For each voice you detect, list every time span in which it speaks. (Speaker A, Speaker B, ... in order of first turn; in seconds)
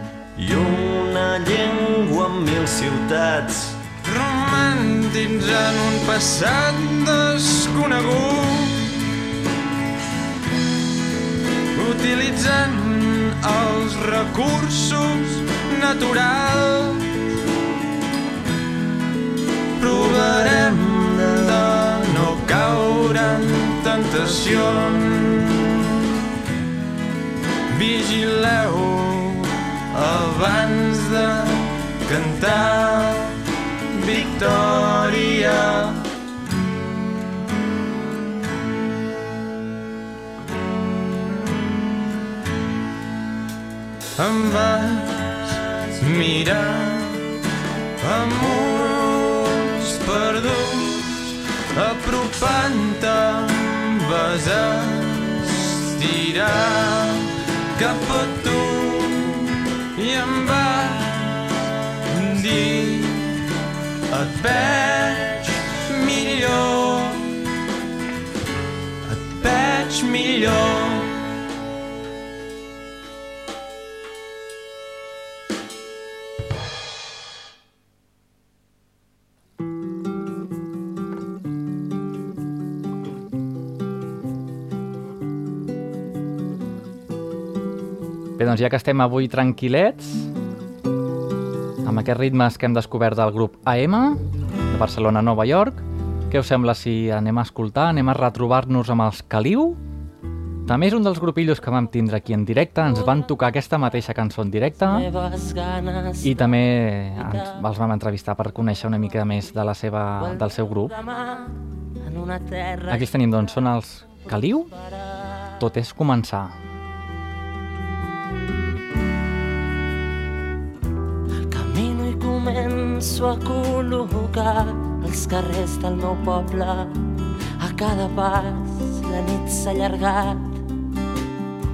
Speaker A: 0.4-3.8
Speaker B: 4.0-8.9, 11.8-17.1, 19.8-25.9, 27.7-33.4, 33.9-36.0, 44.2-45.4, 46.0-47.3, 48.0-61.4, 62.1-63.4, 64.1-67.2, 69.1-71.1
Speaker C: 88.4-90.3, 91.8-99.8, 100.7-105.1, 106.2-111.0, 112.9-114.7, 115.6-116.6
Speaker D: 104.9-106.6, 107.2-107.7, 110.2-113.2, 121.5-126.9, 127.6-130.6